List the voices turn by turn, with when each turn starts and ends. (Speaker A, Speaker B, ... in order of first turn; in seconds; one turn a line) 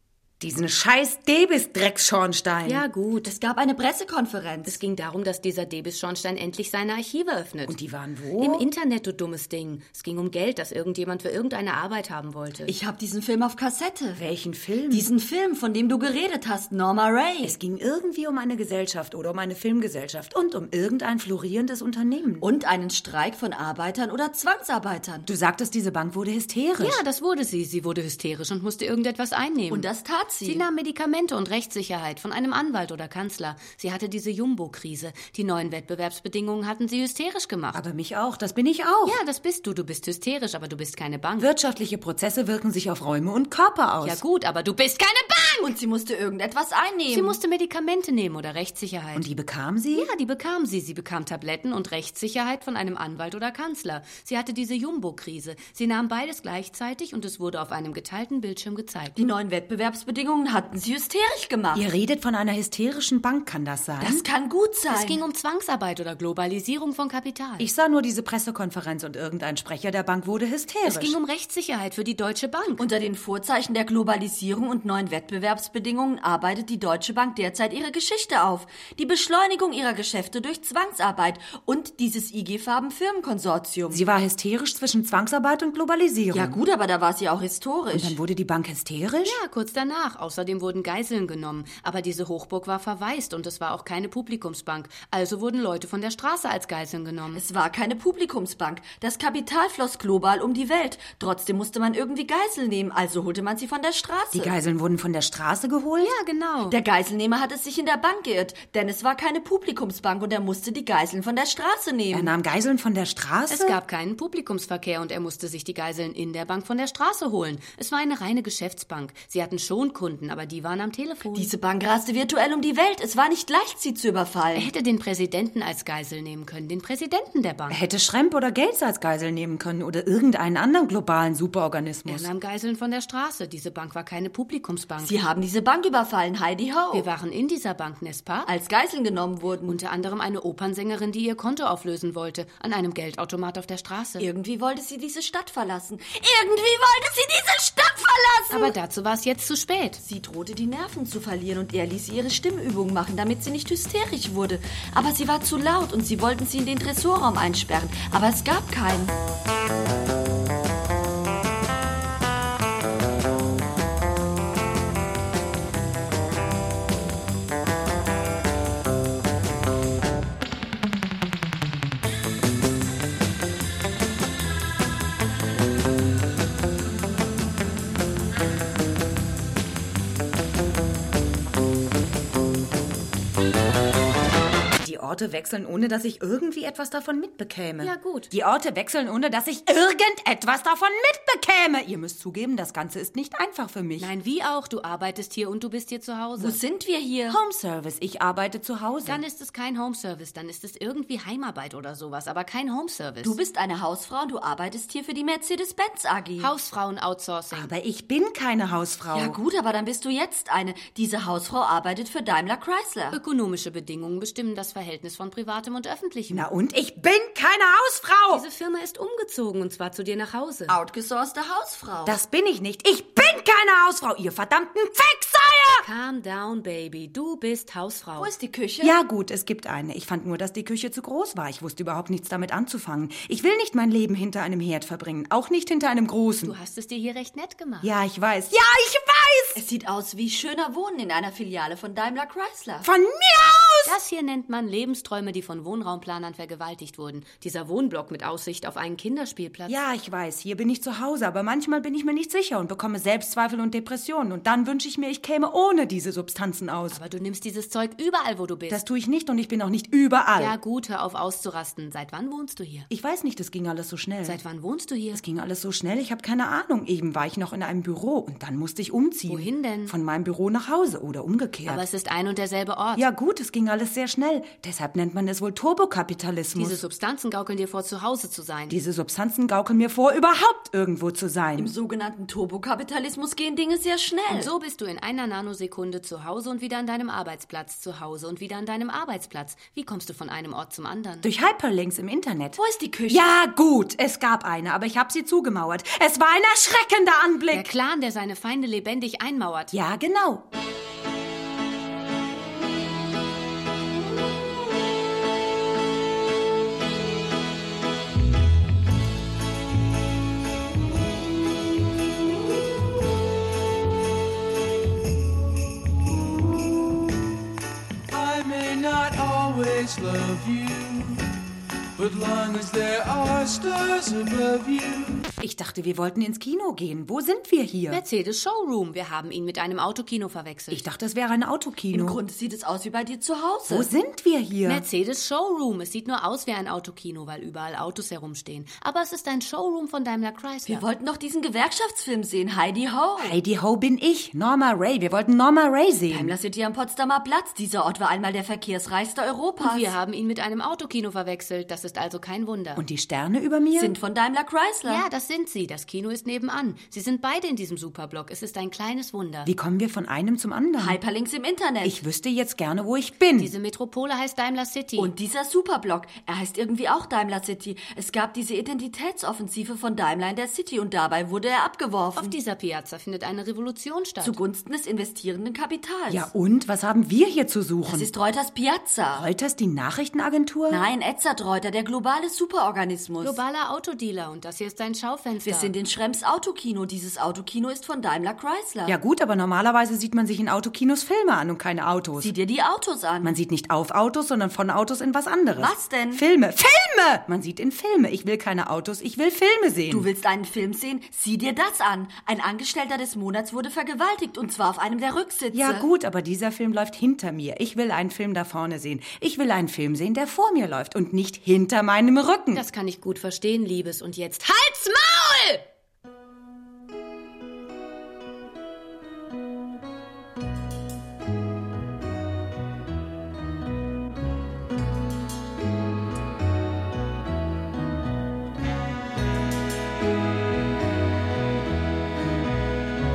Speaker A: 0.4-2.8
Speaker B: 2.6-3.3
Speaker C: 3.2-4.8
Speaker B: 4.7-7.8
Speaker A: 7.6-8.6
Speaker B: 8.4-12.7
Speaker C: 12.7-14.2
Speaker A: 14.1-15.1
Speaker C: 14.9-17.6
Speaker A: 17.4-22.4
Speaker C: 22.4-25.3
Speaker A: 25.2-27.0
Speaker B: 26.8-29.9
Speaker C: 29.7-30.6
Speaker B: 30.4-37.8
Speaker A: 37.7-39.2
Speaker B: 39.0-41.5
Speaker A: 41.4-44.2
Speaker B: 44.0-45.7
Speaker C: 45.6-47.4
Speaker B: 47.1-49.2
Speaker A: 49.1-50.1
Speaker B: 49.9-59.1
Speaker C: 59.1-61.9
Speaker A: 61.7-64.2
Speaker C: 64.0-65.2
Speaker B: 64.9-67.7
Speaker A: 67.6-71.2
Speaker B: 70.8-72.9
Speaker C: 72.8-84.0
Speaker A: 83.9-86.6
Speaker C: 86.3-88.2
Speaker A: 87.9-89.4
Speaker B: 89.2-97.4
Speaker C: 97.3-104.5
Speaker A: 104.3-106.1
Speaker B: 106.0-106.8
Speaker C: 106.7-112.3
Speaker A: 112.1-113.8
Speaker B: 113.5-121.5
Speaker C: 121.3-124.7
Speaker B: 124.5-127.8
Speaker A: 127.7-132.3
Speaker B: 132.1-135.2
Speaker C: 135.0-137.1
Speaker B: 136.9-138.5
Speaker C: 138.4-139.8
Speaker B: 139.7-144.3
Speaker C: 144.2-148.7
Speaker B: 148.5-150.0
Speaker C: 150.0-159.1
Speaker A: 184.8-194.1
Speaker B: 187.8-188.3
Speaker B: 194.0-196.6
Speaker C: 196.4-197.4
Speaker A: 197.3-199.2
Speaker B: 199.1-203.4
Speaker C: 203.2-206.5
Speaker B: 206.4-207.7
Speaker A: 207.5-209.4
Speaker C: 209.1-213.2
Speaker B: 213.1-216.5
Speaker A: 216.3-218.4
Speaker B: 218.3-220.8
Speaker C: 220.7-222.2
Speaker A: 222.0-225.8
Speaker B: 225.8-228.3
Speaker C: 228.2-229.0
Speaker A: 228.8-236.5
Speaker B: 236.4-237.9
Speaker A: 237.8-239.6
Speaker C: 239.5-242.9
Speaker A: 242.8-243.9
Speaker B: 243.8-249.8
Speaker A: 249.7-257.0
Speaker B: 256.9-258.8
Speaker A: 258.7-260.5
Speaker B: 260.4-262.9
Speaker A: 262.9-264.4
Speaker B: 264.2-265.2
Speaker A: 265.1-271.8
Speaker B: 269.3-269.9
Speaker B: 271.6-273.1
Speaker A: 272.9-276.8
Speaker B: 276.5-278.8
Speaker A: 278.7-281.7
Speaker C: 281.6-284.5
Speaker B: 284.3-291.3
Speaker A: 291.2-297.7
Speaker C: 292.6-293.3
Speaker B: 297.5-299.7
Speaker A: 299.7-300.4
Speaker D: 318.1-321.3
Speaker D: 321.9-325.3
Speaker A: 325.4-328.0
Speaker B: 327.9-330.8
Speaker A: 330.7-332.2
Speaker C: 331.9-333.9
Speaker A: 333.7-334.8
Speaker B: 334.6-340.8
Speaker C: 340.7-343.4
Speaker A: 343.2-346.3
Speaker C: 346.1-349.9
Speaker B: 349.6-352.8
Speaker A: 352.8-353.9
Speaker C: 353.7-355.0
Speaker B: 354.9-359.5
Speaker A: 359.4-361.0
Speaker C: 360.8-362.0
Speaker A: 361.8-363.5
Speaker B: 363.4-365.1
Speaker C: 365.0-372.4
Speaker B: 372.1-374.4
Speaker C: 374.2-376.3
Speaker A: 376.1-378.1
Speaker C: 377.9-379.3
Speaker A: 379.1-380.9
Speaker C: 380.7-383.4
Speaker B: 383.2-385.7
Speaker C: 385.4-389.0
Speaker A: 388.9-392.3
Speaker C: 392.2-393.4
Speaker A: 393.2-400.1
Speaker C: 395.5-396.2
Speaker C: 399.9-405.9
Speaker A: 405.5-412.6
Speaker B: 412.5-415.6